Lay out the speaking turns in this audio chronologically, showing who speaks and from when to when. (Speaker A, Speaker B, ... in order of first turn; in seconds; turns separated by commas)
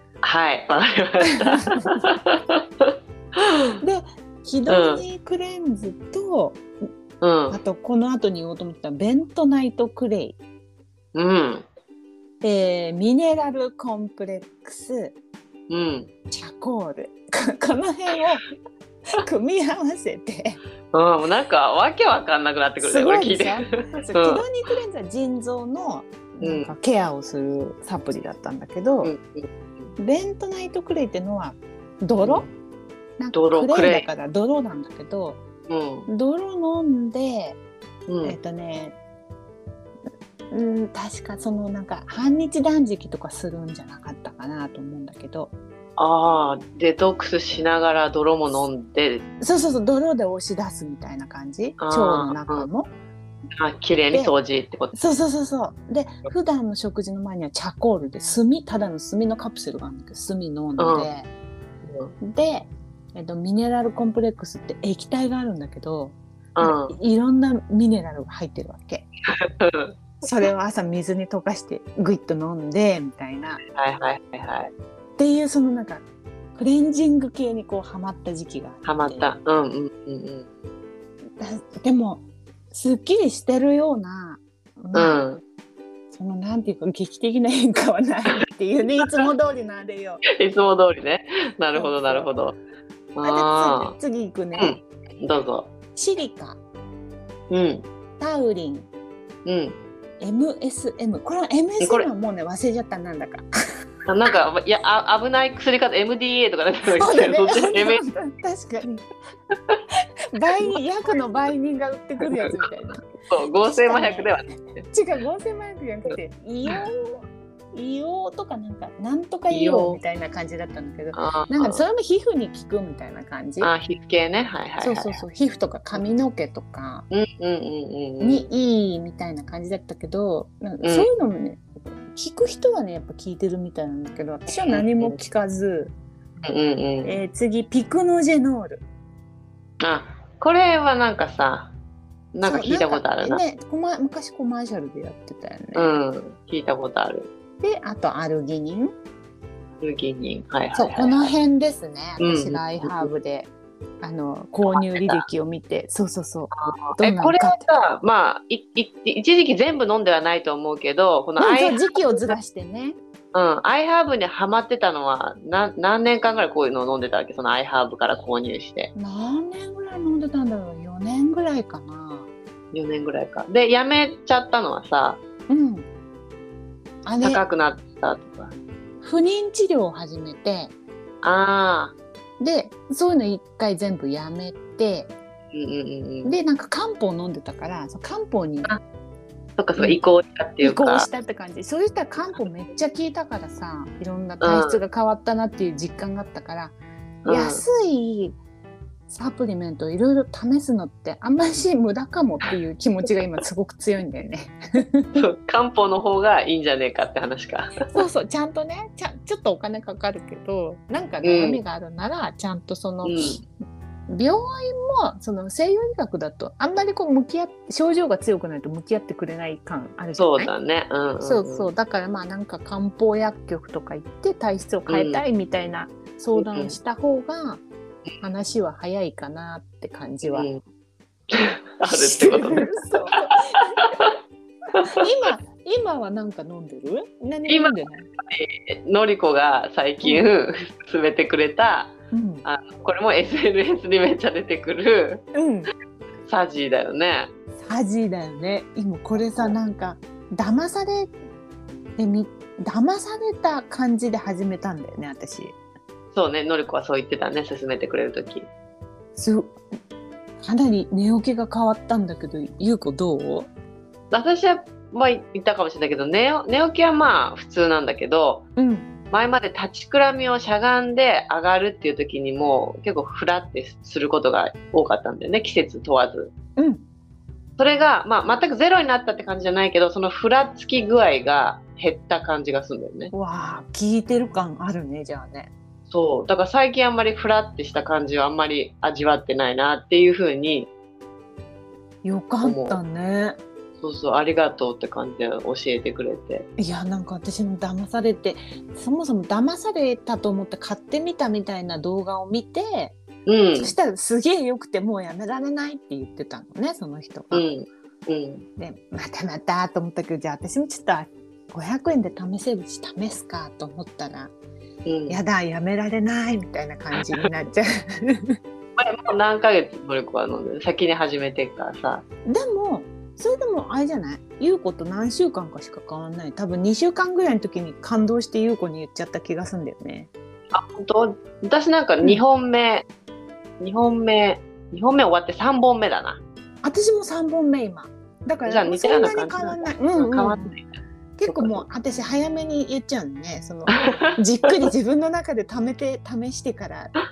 Speaker A: 0.2-3.8, Speaker B: 1.6-2.0, Speaker B: 3.8-6.6, Speaker A: 4.7-5.0, Speaker A: 7.2-7.6, Speaker B: 7.5-10.4, Speaker A: 11.1-11.7, Speaker B: 12.4-15.1, Speaker A: 15.7-16.1, Speaker B: 16.3-18.4, Speaker B: 19.1-20.6, Speaker A: 20.9-24.4, Speaker B: 22.8-29.1, Speaker A: 26.4-26.7, Speaker A: 29.0-29.9, Speaker B: 30.0-32.5, Speaker A: 32.2-32.5, Speaker B: 33.2-35.4, Speaker A: 33.3-34.1, Speaker A: 35.7-36.1, Speaker B: 36.1-37.6, Speaker A: 38.1-38.4, Speaker B: 38.2-39.0, Speaker B: 40.5-45.5, Speaker A: 46.0-49.2, Speaker B: 49.4-52.9, Speaker A: 51.8-52.7, Speaker A: 53.5-55.0, Speaker B: 54.9-61.3, Speaker A: 60.8-61.1, Speaker A: 61.8-62.1, Speaker B: 62.2-69.1, Speaker A: 66.5-67.0, Speaker A: 69.3-70.0, Speaker B: 70.2-73.6, Speaker A: 73.7-74.7, Speaker B: 75.2-76.0, Speaker B: 76.5-79.2, Speaker A: 78.8-80.5, Speaker B: 81.4-85.2, Speaker A: 84.9-85.4, Speaker B: 86.1-90.2, Speaker A: 90.3-92.6, Speaker B: 91.7-92.3, Speaker A: 93.1-93.9, Speaker B: 93.2-94.8, Speaker A: 94.5-95.7, Speaker B: 95.9-96.6, Speaker A: 97.5-97.8, Speaker B: 98.2-98.9, Speaker A: 99.5-99.8, Speaker B: 100.2-103.5, Speaker A: 101.8-102.1, Speaker A: 104.1-108.0, Speaker B: 107.0-109.0, Speaker B: 110.3-113.1, Speaker A: 112.2-114.8, Speaker B: 113.6-114.4, Speaker B: 114.9-123.7, Speaker A: 119.5-120.0, Speaker A: 121.1-121.8, Speaker A: 123.6-125.2, Speaker B: 124.8-127.1, Speaker A: 127.1-128.5, Speaker B: 128.2-135.9, Speaker A: 130.8-131.1, Speaker A: 134.7-135.2, Speaker A: 136.4-137.2, Speaker B: 137.0-138.8, Speaker A: 139.8-141.7, Speaker A: 142.3-143.4, Speaker B: 142.4-145.9, Speaker A: 145.7-147.3, Speaker B: 147.6-148.9, Speaker A: 149.8-151.3, Speaker B: 150.7-153.5, Speaker A: 152.2-153.1, Speaker B: 154.0-157.7, Speaker A: 154.7-155.2, Speaker A: 156.5-162.3, Speaker B: 161.4-163.0, Speaker A: 163.3-168.9, Speaker B: 168.9-172.3, Speaker A: 172.7-175.2, Speaker B: 175.5-175.9, Speaker B: 177.0-177.4, Speaker A: 177.2-178.5, Speaker B: 179.0-180.7, Speaker A: 181.2-181.9, Speaker B: 182.4-185.1, Speaker A: 185.5-186.3, Speaker B: 186.2-188.8, Speaker A: 189.6-191.1, Speaker B: 190.6-196.8, Speaker A: 194.4-194.8, Speaker A: 197.2-197.6, Speaker B: 197.3-198.4, Speaker B: 199.1-205.2, Speaker A: 205.1-207.9, Speaker B: 207.9-213.3, Speaker A: 211.2-211.6, Speaker A: 213.0-213.4, Speaker B: 214.1-220.5, Speaker A: 220.2-221.7, Speaker B: 221.2-227.6, Speaker A: 224.9-225.2, Speaker A: 226.4-226.8, Speaker B: 228.2-230.5, Speaker A: 230.2-230.6, Speaker A: 231.3-234.1, Speaker B: 231.8-233.7, Speaker A: 234.7-235.0, Speaker B: 234.9-238.1, Speaker A: 237.5-241.9, Speaker B: 242.1-242.4, Speaker A: 242.4-245.2, Speaker B: 245.3-245.7, Speaker A: 246.2-247.3, Speaker B: 247.6-251.1, Speaker B: 252.0-255.6, Speaker A: 256.1-258.5, Speaker B: 259.1-259.6, Speaker B: 260.4-263.5, Speaker A: 264.1-268.4, Speaker B: 268.6-268.9, Speaker A: 269.1-276.3, Speaker B: 276.6-276.8, Speaker A: 277.6-283.1, Speaker B: 283.1-285.5, Speaker A: 285.9-290.7, Speaker B: 292.0-293.4, Speaker A: 292.4-292.8, Speaker A: 293.8-296.5, Speaker B: 296.6-302.9, Speaker A: 303.2-303.7, Speaker B: 303.6-307.4, Speaker A: 307.3-308.4, Speaker B: 308.6-314.3, Speaker A: 314.9-315.2, Speaker B: 315.1-318.4, Speaker A: 318.8-322.0, Speaker B: 322.2-330.1, Speaker A: 330.5-332.9, Speaker A: 333.6-336.2, Speaker B: 336.6-340.6, Speaker A: 338.4-340.7, Speaker B: 341.2-346.9, Speaker A: 341.3-341.6, Speaker A: 343.7-344.2